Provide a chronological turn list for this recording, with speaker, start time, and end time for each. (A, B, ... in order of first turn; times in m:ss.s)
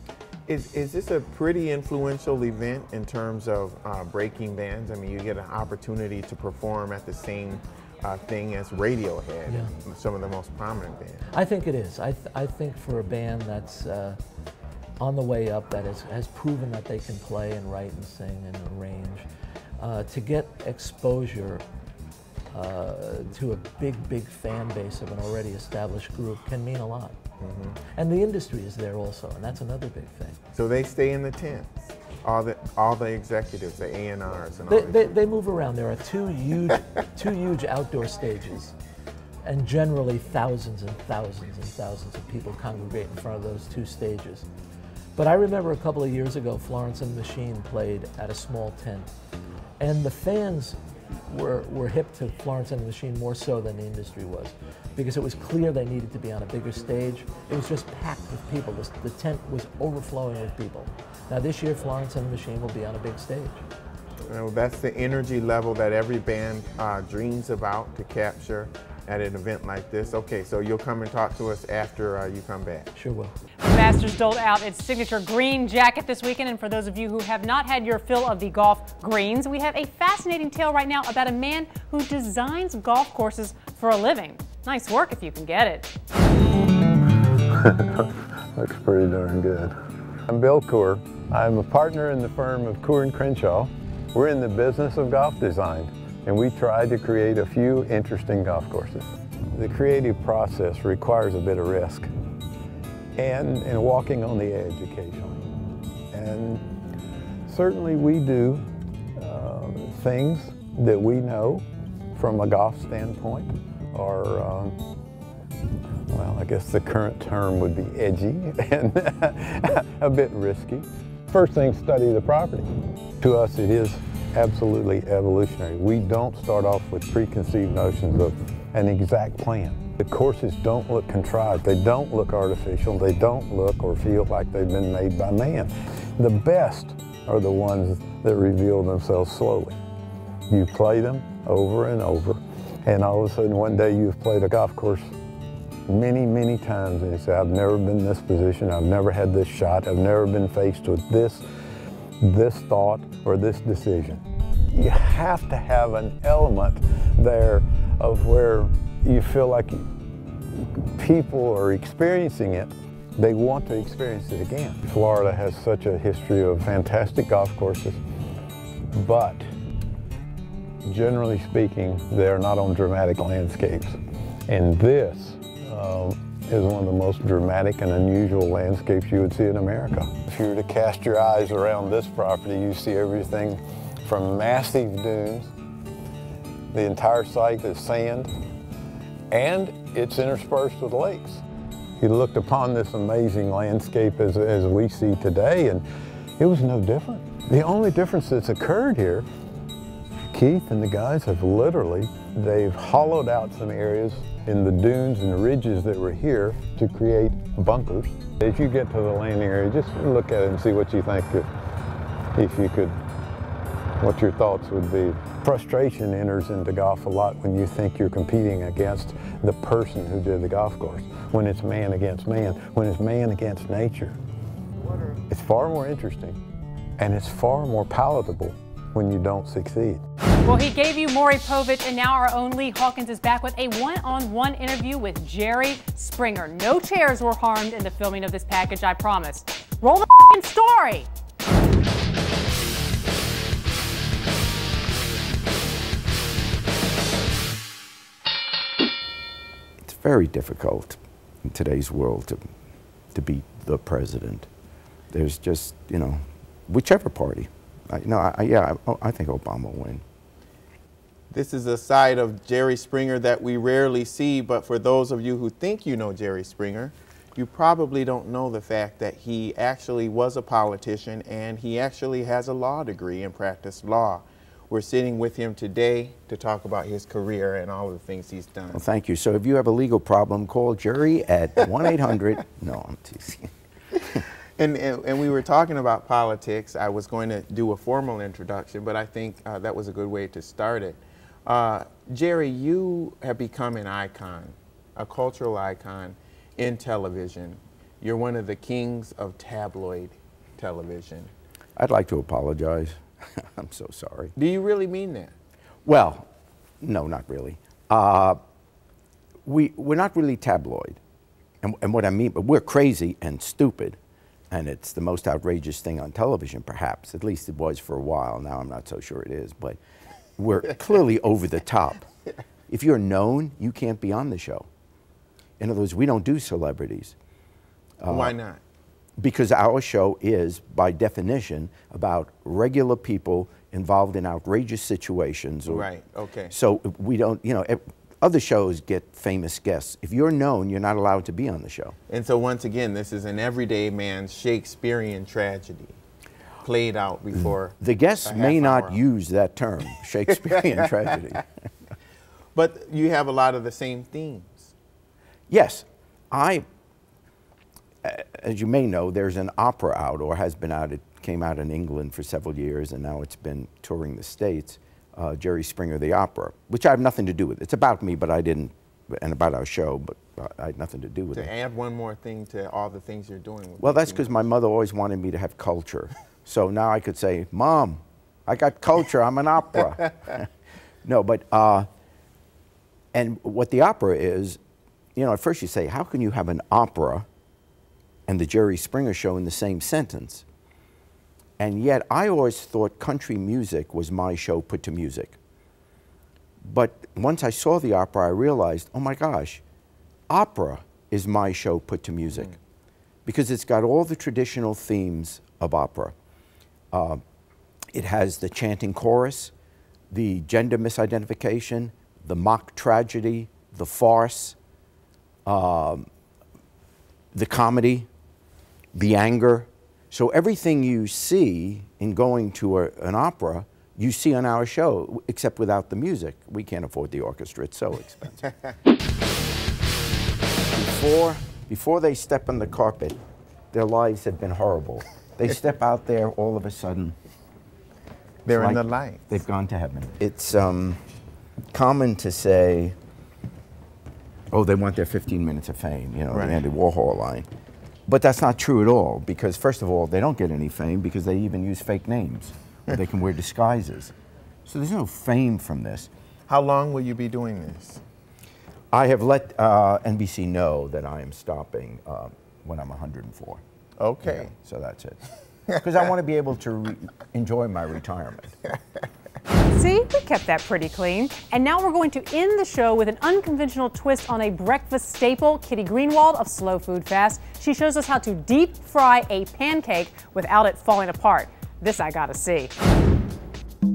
0:00.5-0:11.2 A
0:09.5-0:09.7 B
0:11.3-0:14.2 B
0:15.0-0:19.3 B
0:19.8-0:21.6 B
0:22.5-0:27.2 B
0:27.4-0:27.8 A
0:27.9-0:30.4 B
0:30.5-0:35.1 A
0:34.7-0:38.8 B
0:39.4-0:44.5 B
0:45.2-0:49.1 B
0:49.8-1:03.6 B
1:04.3-1:12.9 A
1:13.0-1:13.3 B
1:13.6-1:25.9 C
1:27.5-1:29.8 D
1:30.3-1:42.1 D
1:43.2-1:45.4 D
1:46.1-1:46.6 D
1:47.5-1:48.6 D
1:49.2-1:54.8 D
1:56.1-2:02.7 D
2:03.2-2:19.8 D
2:20.5-2:25.1 D
2:25.9-2:31.4 D
2:32.2-2:39.8 D
2:40.5-2:48.0 D
2:48.9-2:49.4 D
2:50.8-3:05.5 D
3:06.7-3:08.3 D
3:09.3-3:11.4 D
3:12.0-3:15.8 D
3:16.4-3:19.3 D
3:20.3-3:31.5 D
3:32.4-3:33.0 D
3:34.0-3:44.2 D
3:45.3-3:46.4 D
3:47.0-3:50.0 D
3:50.4-4:01.1 C
4:09.8-4:12.4 E
4:13.1-4:14.5 E
4:15.1-4:20.0 E
4:21.3-4:38.8 A
4:38.7-4:43.5 E
4:44.6-5:01.3 A
5:01.8-5:04.3 E
5:04.4-5:05.3 A
5:05.8-5:06.3 E
5:06.8-5:08.4 E
5:09.4-5:11.0 E
5:11.6-5:14.0 E
5:14.5-5:19.8 E
5:20.4-5:22.1 E
5:22.7-5:24.7 E
5:25.6-5:27.2 E
5:28.0-5:28.4 E
5:28.1-5:28.6 A
5:29.2-5:35.9 E
5:35.7-5:36.5 A
5:36.5-5:42.0 E
5:42.1-5:46.0 A
5:46.6-5:49.0 A
5:47.8-5:51.4 E
5:52.5-5:54.7 A
5:55.5-5:56.6 E
5:58.0-6:11.5 E
6:11.3-6:14.3 A
6:13.8-6:20.5 E
6:21.0-6:21.9 E
6:23.1-6:24.6 E
6:25.2-6:27.3 E
6:28.3-6:30.4 E
6:31.6-6:35.4 E
6:36.6-6:39.6 E
6:40.3-6:42.5 E
6:43.3-6:46.2 E
6:46.9-6:47.2 E
6:47.9-6:49.5 E
6:50.1-6:54.6 E
6:55.5-6:56.1 E
6:57.3-6:58.1 E
6:58.9-7:08.5 E
7:10.7-7:13.2 E
7:13.7-7:17.2 E
7:18.4-7:19.3 A
7:18.6-7:21.0 E
7:21.7-7:23.0 E
7:24.5-7:27.5 E
7:26.3-7:26.6 A
7:28.1-7:34.1 E
7:34.7-7:36.1 E
7:36.5-7:38.0 A
7:38.9-7:43.6 E
7:44.0-7:44.5 A
7:44.2-7:45.2 E
7:45.8-7:48.6 E
7:49.7-8:02.7 C